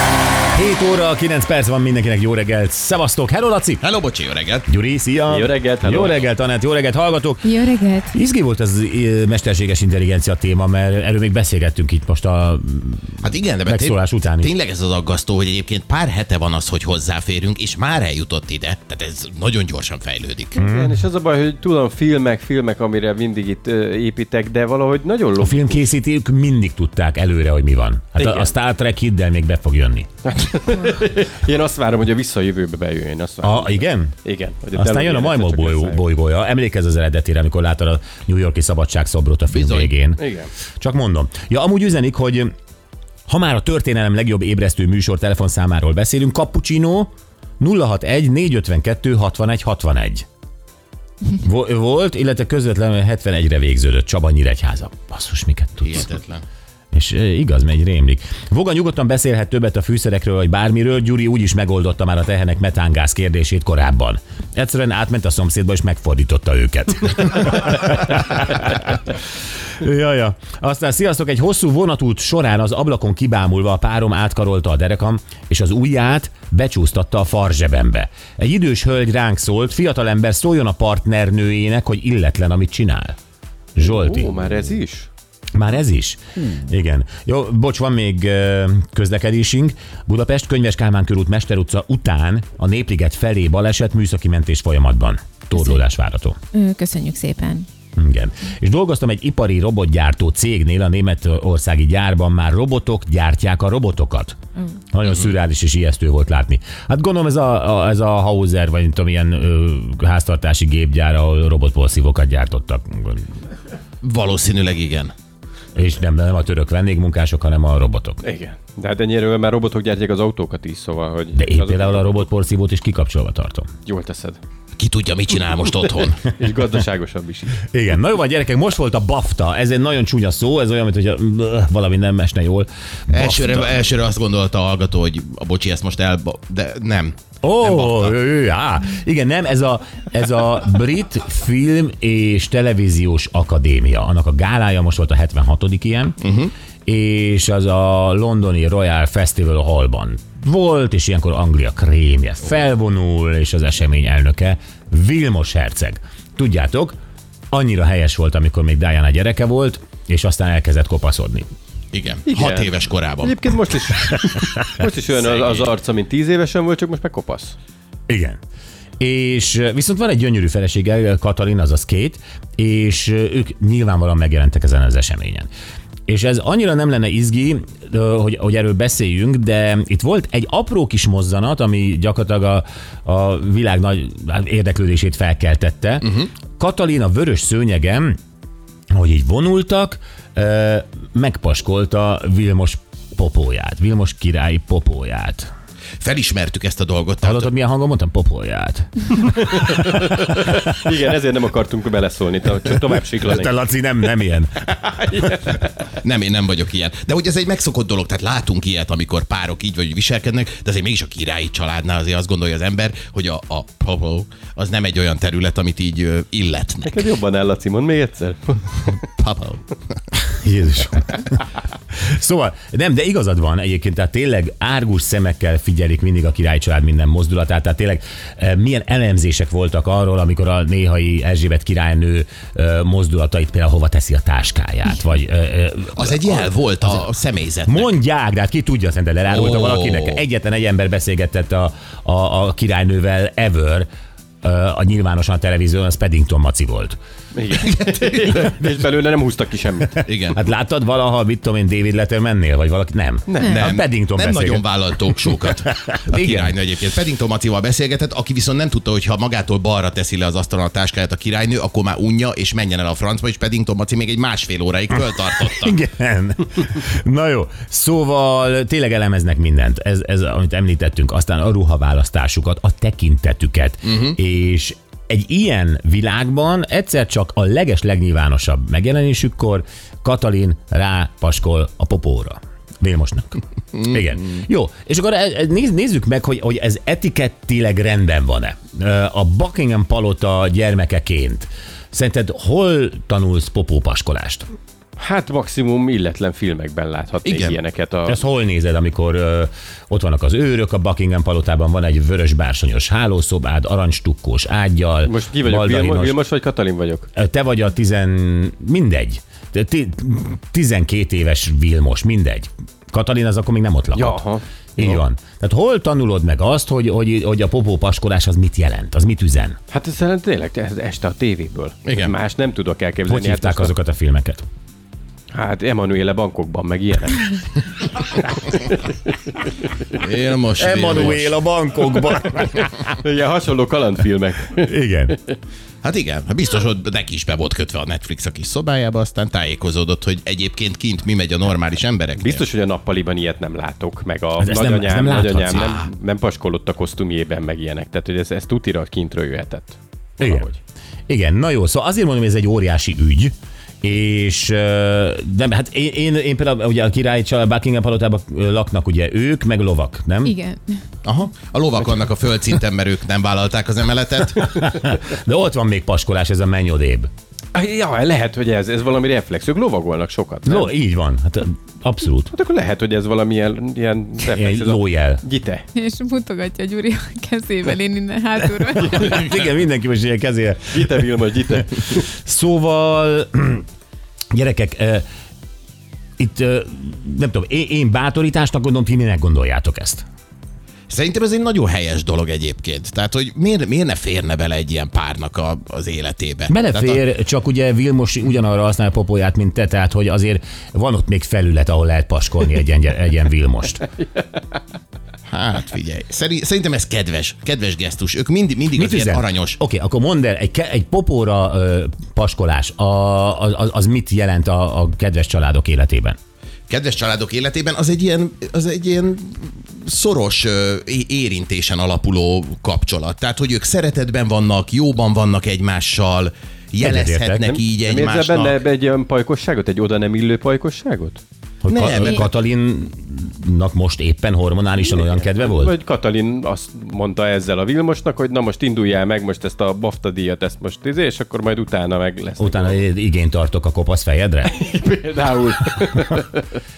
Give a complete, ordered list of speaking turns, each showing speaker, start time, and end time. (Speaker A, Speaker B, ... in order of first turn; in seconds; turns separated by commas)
Speaker A: 0.5-3.8, Speaker B: 3.8-4.7, Speaker A: 4.7-7.6, Speaker C: 5.3-6.2, Speaker D: 7.4-8.1, Speaker A: 8.1-14.5, Speaker B: 13.2-20.6, Speaker C: 20.5-25.9, Speaker A: 20.6-21.0, Speaker A: 25.4-30.1, Speaker C: 28.2-28.5, Speaker C: 30.2-36.0, Speaker A: 33.4-34.1, Speaker A: 34.7-40.2, Speaker B: 39.5-39.9, Speaker C: 40.2-40.5, Speaker A: 40.8-42.5, Speaker A: 43.3-50.2, Speaker A: 51.4-56.1, Speaker B: 55.8-56.4, Speaker A: 56.9-69.0, Speaker A: 69.8-83.2, Speaker A: 83.8-84.5, Speaker C: 83.8-85.1, Speaker A: 85.5-96.3, Speaker D: 95.5-95.8, Speaker D: 96.5-97.7, Speaker A: 98.0-104.3, Speaker A: 104.9-113.3, Speaker B: 114.0-115.1, Speaker A: 115.7-118.2, Speaker C: 118.2-122.2, Speaker A: 121.3-123.7, Speaker C: 123.8-124.4, Speaker B: 124.8-126.2, Speaker C: 126.2-127.6, Speaker A: 127.7-133.8, Speaker B: 133.1-138.2, Speaker A: 137.4-146.2, Speaker B: 146.2-146.5, Speaker A: 146.8-156.9, Speaker A: 157.5-161.4, Speaker B: 161.9-163.4, Speaker C: 162.2-167.5, Speaker B: 165.1-165.7, Speaker A: 168.1-168.4, Speaker A: 169.0-175.5, Speaker A: 176.1-188.2, Speaker A: 188.9-195.5, Speaker B: 196.0-197.5, Speaker A: 197.2-200.1, Speaker C: 199.5-203.5, Speaker A: 203.2-204.6, Speaker C: 204.7-205.7, Speaker B: 206.0-217.1, Speaker C: 216.8-218.7, Speaker B: 218.8-219.6, Speaker A: 220.2-221.4, Speaker A: 221.9-237.1, Speaker B: 235.9-237.9, Speaker A: 237.7-243.9, Speaker B: 239.3-240.2, Speaker A: 244.4-247.0, Speaker C: 247.3-250.0, Speaker A: 249.9-256.5, Speaker B: 250.1-250.4, Speaker C: 253.3-253.6, Speaker B: 253.4-265.8, Speaker A: 265.5-294.4, Speaker C: 295.0-298.2, Speaker B: 297.2-297.6, Speaker A: 298.1-306.1, Speaker C: 305.0-307.1, Speaker A: 307.1-314.2, Speaker C: 313.9-315.0, Speaker A: 314.8-319.6, Speaker C: 319.7-323.7, Speaker B: 321.9-322.1, Speaker A: 323.1-324.4, Speaker C: 325.3-327.4, Speaker B: 329.9-331.4, Speaker A: 330.6-332.8, Speaker C: 332.5-334.8, Speaker A: 334.6-335.2, Speaker B: 335.8-342.4, Speaker C: 342.1-350.6, Speaker A: 344.4-345.8, Speaker B: 345.5-345.9, Speaker A: 350.2-350.5, Speaker A: 351.1-360.4, Speaker D: 360.2-360.8, Speaker B: 361.0-364.6, Speaker A: 364.5-367.1, Speaker C: 367.5-370.7, Speaker A: 370.4-372.3, Speaker C: 372.3-375.6, Speaker A: 374.3-375.2, Speaker D: 375.7-379.2, Speaker A: 378.8-381.0, Speaker C: 380.7-382.0, Speaker A: 382.1-383.6, Speaker A: 384.3-385.0, Speaker A: 386.2-390.0, Speaker B: 390.9-397.0, Speaker A: 396.5-403.8, Speaker B: 405.3-409.6, Speaker A: 408.8-416.2, Speaker B: 416.7-428.6, Speaker A: 426.8-427.4, Speaker C: 427.4-431.2, Speaker A: 431.6-435.7, Speaker B: 431.7-432.3, Speaker C: 434.8-442.8, Speaker A: 442.4-444.5, Speaker C: 444.4-446.4